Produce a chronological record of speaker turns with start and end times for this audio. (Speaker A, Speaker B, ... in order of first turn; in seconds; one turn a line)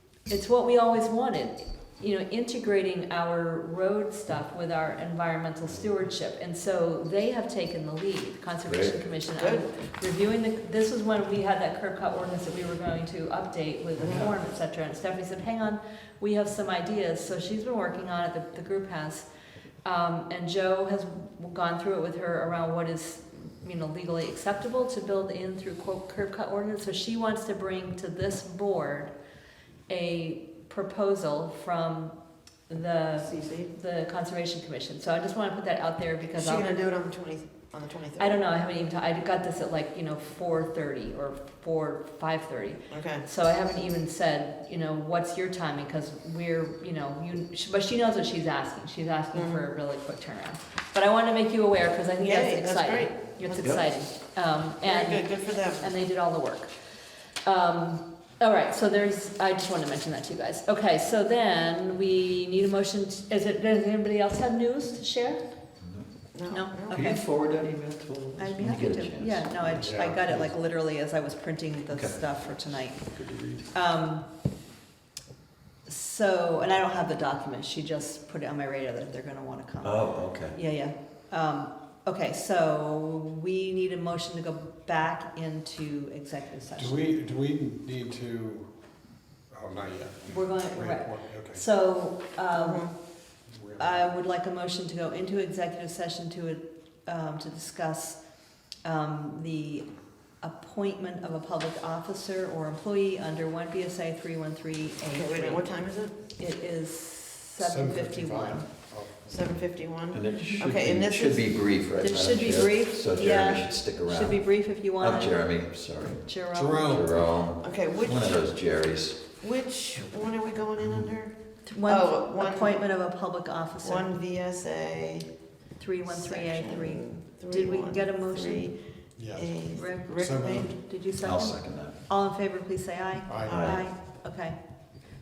Speaker A: 0.3-19.3
Speaker B: 8.7-8.9
Speaker C: 9.4-9.6
Speaker C: 14.0-14.3
Speaker A: 19.8-29.1
Speaker A: 29.9-32.2
Speaker A: 32.7-36.7
Speaker C: 33.2-33.7
Speaker C: 36.4-38.4
Speaker A: 38.2-56.7
Speaker C: 42.9-43.3
Speaker C: 49.3-49.7
Speaker C: 52.2-53.8
Speaker C: 54.8-55.9
Speaker A: 57.5-65.4
Speaker B: 65.8-66.1
Speaker C: 66.3-67.1
Speaker A: 66.5-67.2
Speaker B: 66.9-69.9
Speaker A: 68.4-73.1
Speaker D: 69.7-70.5
Speaker B: 71.9-72.2
Speaker B: 73.1-73.7
Speaker A: 73.7-74.2
Speaker A: 75.9-87.1
Speaker B: 79.8-80.6
Speaker D: 86.8-88.7
Speaker D: 89.5-91.6
Speaker A: 90.3-92.9
Speaker C: 92.5-92.9
Speaker D: 93.5-94.0
Speaker A: 93.8-98.2
Speaker A: 98.8-99.8
Speaker A: 100.4-105.6
Speaker C: 105.1-106.1
Speaker A: 106.4-108.7
Speaker D: 107.6-109.6
Speaker C: 109.3-111.5
Speaker B: 110.1-114.5
Speaker A: 112.0-115.4
Speaker B: 115.0-116.3
Speaker A: 116.2-116.9
Speaker D: 116.5-117.1
Speaker B: 116.8-119.3
Speaker C: 117.6-118.5
Speaker C: 119.4-122.8
Speaker A: 121.7-124.1
Speaker C: 123.8-125.3
Speaker A: 125.8-128.7
Speaker C: 126.0-128.8
Speaker D: 129.2-130.8
Speaker C: 129.3-130.8
Speaker A: 129.7-134.6
Speaker B: 131.2-131.9
Speaker D: 133.3-133.7
Speaker C: 133.4-133.8
Speaker B: 133.5-133.8